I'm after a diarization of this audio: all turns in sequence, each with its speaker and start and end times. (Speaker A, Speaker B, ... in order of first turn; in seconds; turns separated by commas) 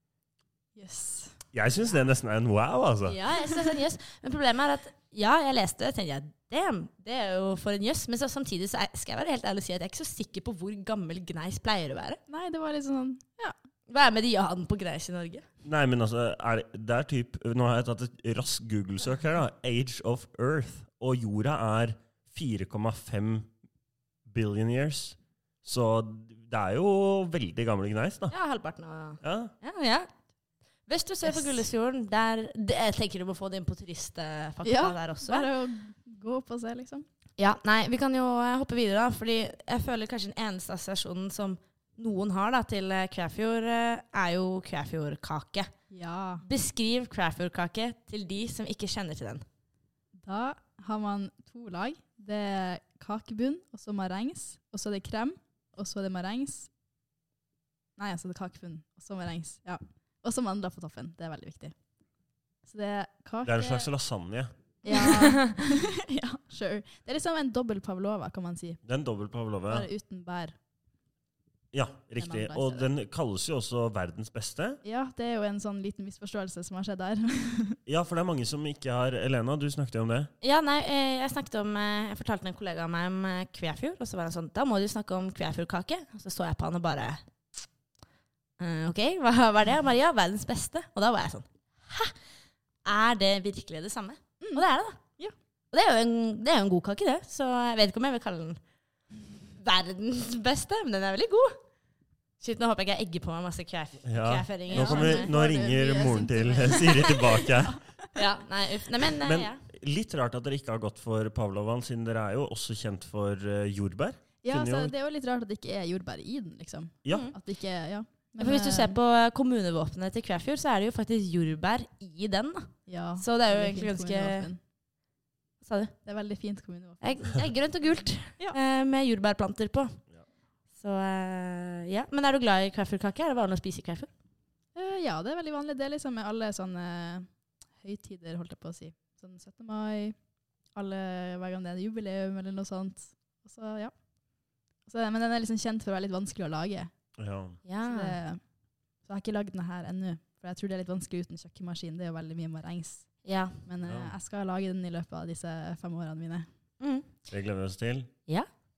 Speaker A: 0.8-1.4, Speaker B: 1.5-3.2, Speaker C: 3.1-12.2, Speaker A: 12.3-13.6, Speaker C: 13.9-15.4, Speaker B: 15.6-23.5, Speaker B: 24.3-28.3, Speaker C: 28.3-30.1, Speaker B: 29.2-29.5, Speaker C: 30.9-35.5, Speaker A: 34.6-37.1, Speaker C: 37.4-45.7, Speaker A: 45.9-46.5, Speaker C: 46.5-49.4, Speaker A: 50.2-56.7, Speaker A: 58.0-61.7, Speaker A: 62.6-63.9, Speaker B: 63.5-65.3, Speaker A: 64.8-68.8, Speaker C: 64.9-65.4, Speaker B: 68.8-69.9, Speaker A: 69.7-70.5, Speaker B: 71.7-74.8, Speaker A: 72.2-72.9, Speaker A: 74.8-77.8, Speaker B: 77.9-80.3, Speaker C: 80.4-87.2, Speaker C: 88.6-92.2, Speaker C: 92.8-95.0, Speaker C: 95.7-98.6, Speaker C: 99.6-101.6, Speaker C: 102.4-105.3, Speaker B: 104.0-107.8, Speaker A: 104.7-108.1, Speaker C: 108.2-109.6, Speaker B: 109.2-114.9, Speaker A: 114.4-119.0, Speaker C: 118.4-124.5, Speaker A: 122.9-124.6, Speaker C: 125.6-125.9, Speaker A: 126.0-127.1, Speaker C: 127.0-130.0, Speaker C: 130.8-134.1, Speaker A: 134.8-140.2, Speaker A: 140.8-143.9, Speaker A: 144.8-146.9, Speaker B: 147.2-147.6, Speaker C: 147.7-148.2, Speaker A: 147.9-148.4, Speaker A: 149.0-156.5, Speaker C: 153.2-153.6, Speaker B: 153.8-154.1, Speaker C: 156.8-157.1, Speaker B: 157.3-158.1